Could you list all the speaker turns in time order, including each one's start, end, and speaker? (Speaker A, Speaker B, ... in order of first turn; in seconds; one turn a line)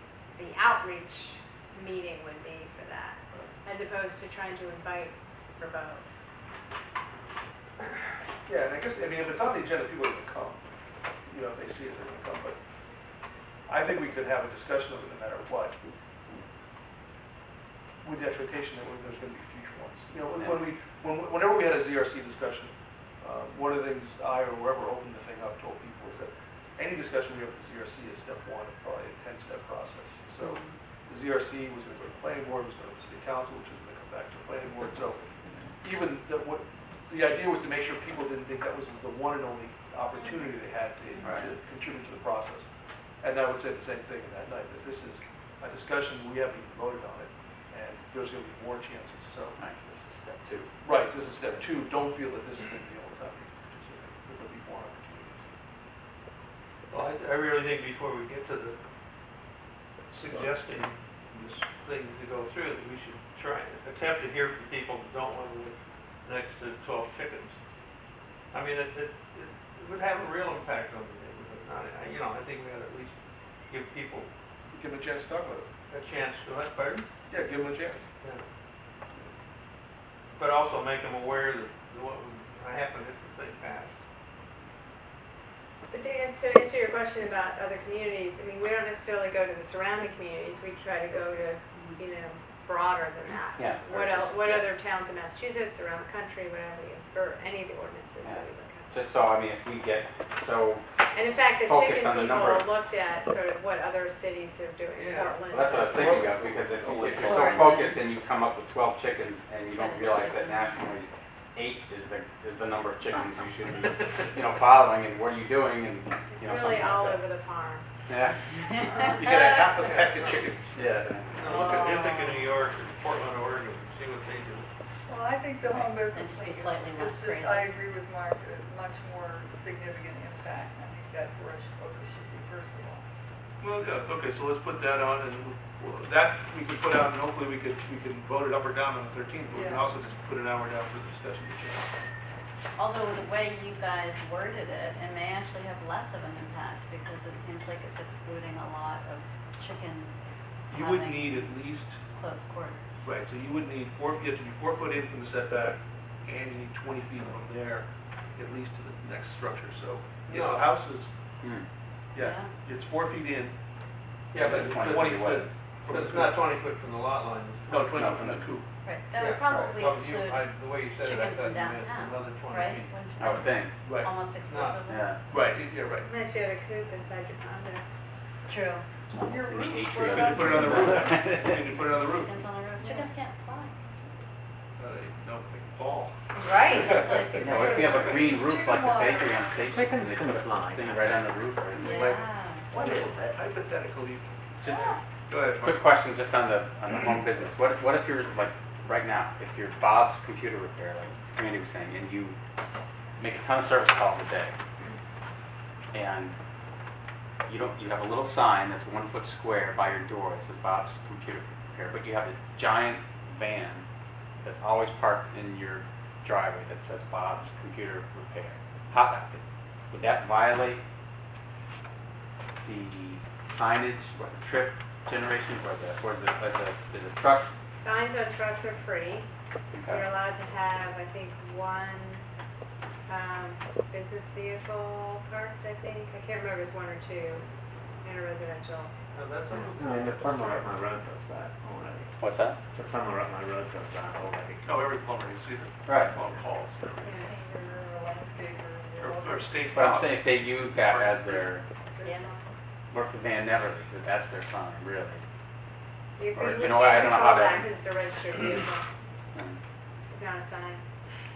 Speaker A: 0.3-6.2
Speaker B: 8.4-10.6
Speaker B: 11.3-12.6
Speaker B: 13.7-15.8
Speaker B: 18.0-35.2
Speaker C: 20.4-20.6
Speaker D: 30.4-30.8
Speaker B: 35.8-42.7
Speaker C: 41.2-41.5
Speaker B: 43.2-49.6
Speaker C: 49.6-50.7
Speaker B: 50.8-55.5
Speaker E: 56.9-58.8
Speaker E: 60.1-67.5
Speaker E: 68.5-73.1
Speaker E: 73.7-74.3
Speaker B: 74.7-75.7
Speaker E: 75.9-77.1
Speaker B: 77.3-78.1
Speaker E: 80.3-83.9
Speaker A: 85.9-98.9
Speaker C: 93.5-94.7
Speaker C: 98.2-100.8
Speaker A: 101.1-105.7
Speaker C: 101.6-102.7
Speaker E: 104.9-105.9
Speaker C: 105.5-117.2
Speaker B: 105.5-107.7
Speaker D: 107.1-108.1
Speaker D: 109.7-110.7
Speaker A: 116.3-117.9
Speaker C: 118.1-118.4
Speaker B: 118.8-121.7
Speaker E: 119.2-120.4
Speaker C: 120.7-121.7
Speaker E: 121.3-124.7
Speaker F: 121.5-122.5
Speaker F: 125.0-133.0
Speaker D: 125.6-127.8
Speaker B: 133.6-141.9
Speaker F: 139.5-139.9
Speaker D: 142.8-150.2
Speaker B: 150.7-152.0
Speaker D: 150.7-152.8
Speaker B: 153.0-161.1
Speaker E: 160.3-160.7
Speaker C: 161.4-161.7
Speaker B: 162.1-163.5
Speaker D: 162.2-162.5
Speaker E: 164.3-165.2
Speaker C: 164.3-165.5
Speaker B: 164.4-166.5
Speaker E: 165.9-167.9
Speaker B: 167.7-168.7
Speaker C: 167.7-168.4
Speaker D: 168.8-175.1
Speaker E: 169.2-172.9
Speaker C: 169.5-169.7
Speaker C: 173.2-173.7
Speaker B: 173.8-174.1
Speaker E: 174.4-174.8
Speaker C: 174.9-175.2
Speaker B: 175.3-176.1
Speaker A: 176.0-177.8
Speaker D: 178.5-178.8
Speaker F: 179.1-181.1
Speaker C: 179.5-181.6
Speaker B: 180.1-182.4
Speaker D: 182.0-183.7
Speaker A: 182.8-183.1
Speaker B: 184.8-186.1
Speaker D: 186.4-188.1
Speaker A: 186.4-187.6
Speaker B: 186.7-187.4
Speaker C: 187.3-192.2
Speaker G: 187.4-188.1
Speaker F: 187.9-189.6
Speaker G: 189.6-191.2
Speaker D: 191.8-192.8
Speaker B: 191.8-194.3
Speaker G: 192.8-193.3
Speaker B: 195.3-195.9
Speaker C: 195.6-202.3
Speaker C: 203.2-204.5
Speaker C: 205.9-206.3
Speaker C: 207.4-213.8
Speaker C: 214.4-220.8
Speaker C: 222.6-227.5
Speaker A: 227.7-229.3
Speaker C: 229.7-230.1
Speaker A: 229.8-232.2
Speaker A: 233.1-237.4
Speaker A: 238.0-238.9
Speaker E: 239.1-240.7
Speaker A: 239.5-239.8
Speaker G: 239.8-242.1
Speaker C: 242.2-242.6
Speaker G: 242.7-244.8
Speaker B: 244.6-247.2
Speaker C: 245.8-246.1
Speaker A: 247.0-247.3
Speaker F: 247.1-249.6
Speaker B: 249.0-251.5
Speaker C: 249.7-251.6
Speaker F: 251.9-252.5
Speaker D: 252.0-252.3
Speaker C: 252.9-255.2
Speaker A: 256.2-258.9
Speaker C: 256.3-257.7
Speaker C: 259.3-259.6
Speaker A: 260.1-260.8